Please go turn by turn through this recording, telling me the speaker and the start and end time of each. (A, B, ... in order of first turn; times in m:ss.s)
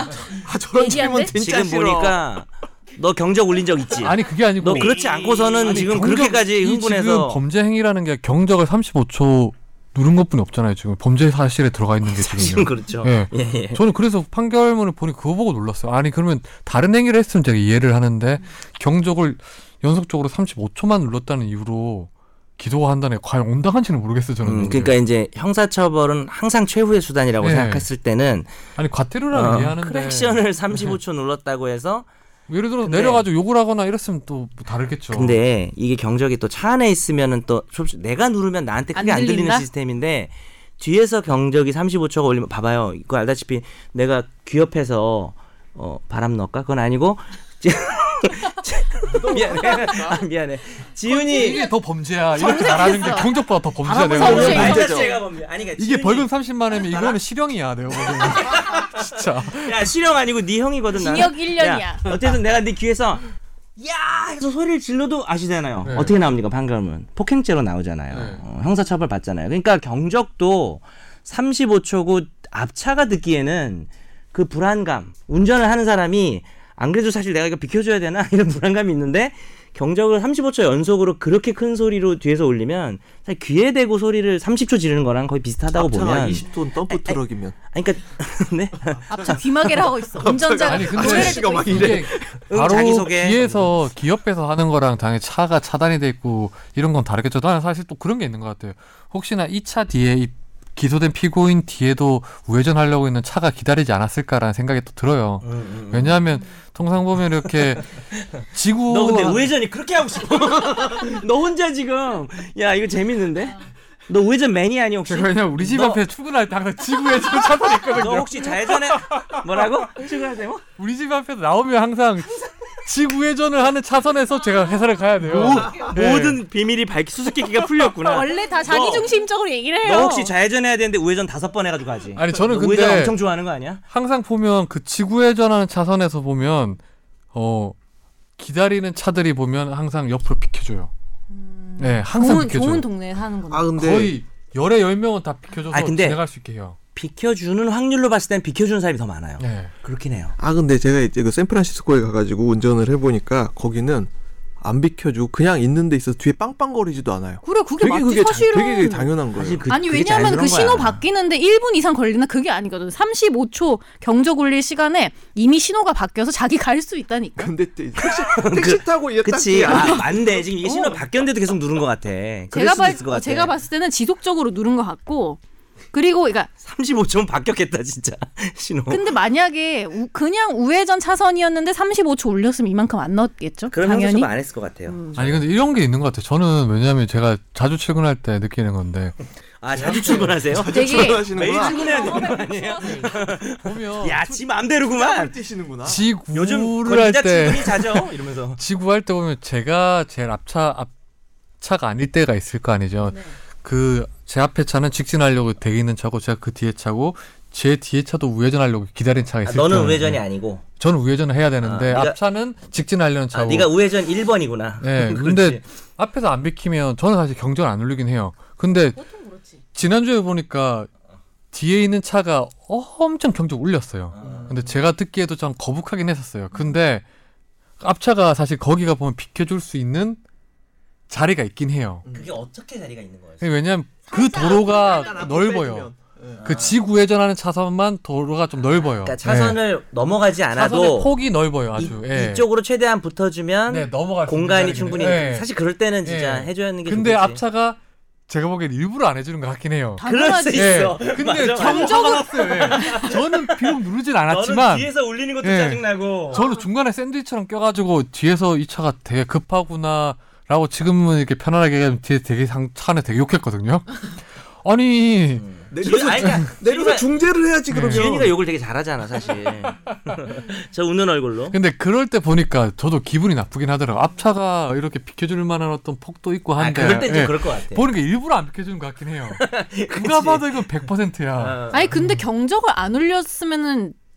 0:00.3-0:02.2 A
0:00.7-0:01.4 B
0:01.4-0:07.4 C
0:04.0-0:25.0 D
0:12.0-0:13.8 C
0:24.4-0:28.5 C
0:27.4-0:27.9 D
0:28.8-0:31.0 D
0:29.3-0:32.1 C
0:32.5-0:35.4 D
0:32.8-0:33.3 C
0:35.1-0:51.6 C
0:39.0-0:39.7 B
0:49.1-0:50.2 A
0:51.1-0:51.7 B
0:51.3-0:55.0 D
0:52.3-0:53.3 B
0:53.8-0:55.2 A
0:54.0-0:56.3 C
0:54.0-0:54.9 B
0:55.8-0:59.9 D
0:56.8-0:57.2 C
0:58.1-0:58.9 C
0:59.5-1:03.3 C
1:01.0-1:02.0 B
1:03.8-1:29.1 C
1:05.8-1:06.2 D
1:08.1-1:08.4 D
1:25.7-1:27.6 A
1:29.1-1:31.9 B
1:29.1-1:32.4 A
1:30.7-1:47.8 D
1:32.5-1:33.7 C
1:45.4-1:46.2 C
1:47.5-1:47.8 C
1:48.5-1:49.5 D
1:48.9-1:56.0 C
1:55.1-1:59.6 D
1:57.9-2:00.6 C
2:00.8-2:06.4 D
2:05.2-2:09.1 C
2:08.0-2:10.3 B
2:09.8-2:13.8 C
2:12.2-2:13.2 D
2:13.9-2:16.8 D
2:17.3-2:17.8 D
2:18.4-2:20.9 D
2:21.3-2:23.7 B
2:21.8-2:22.9 D
2:23.5-2:24.1 A
2:23.8-2:26.8 D
2:25.7-2:26.2 C
2:27.0-2:30.4 C
2:29.4-2:29.7 D
2:30.4-2:39.6 A
2:37.4-2:39.1 B
2:39.4-2:41.0 C
2:39.7-2:47.5 B
2:47.4-2:51.0 A
2:48.0-2:53.5 C
2:52.5-2:55.4 B
2:55.9-2:56.5 B
2:56.6-2:59.1 C
2:58.9-3:04.3 B
3:03.7-3:05.0 C
3:04.9-3:05.2 B
3:05.2-3:09.2 D
3:09.6-3:15.3 C
3:09.8-3:10.3 D
3:09.8-3:12.3 A
3:10.7-3:13.2 B
3:13.6-3:14.4 D
3:14.9-3:16.1 A
3:15.8-3:20.9 D
3:16.3-3:18.6 C
3:21.6-3:30.2 D
3:23.1-3:23.4 B
3:29.4-3:30.6 C
3:30.8-3:33.7 D
3:31.6-3:32.2 C
3:33.3-3:35.6 C
3:34.8-3:39.0 D
3:38.9-3:39.6 B
3:39.7-3:40.9 D
3:41.5-3:47.0 D
3:44.1-3:44.7 C
3:44.2-3:44.6 A
3:47.8-3:50.2 D
3:51.1-3:52.0 D
3:52.1-3:53.5 C
3:53.4-3:55.9 D
3:54.1-3:56.4 A
3:56.4-3:56.8 C
3:56.4-3:59.6 D
3:59.0-4:01.1 C
4:00.6-4:02.5 D
4:01.8-4:07.4 C
4:03.7-4:05.5 D
4:06.0-4:14.9 D
4:10.0-4:10.9 B
4:10.0-4:13.8 C
4:11.6-4:13.1 B
4:14.3-4:16.5 C
4:15.4-4:25.5 D
4:25.4-4:27.2 C
4:25.7-4:28.3 A
4:26.2-4:26.5 D
4:27.7-4:28.3 D
4:27.7-4:31.6 C
4:31.5-4:42.3 D
4:36.6-4:37.9 C
4:39.3-4:40.5 C
4:41.4-4:41.9 C
4:41.7-4:44.0 B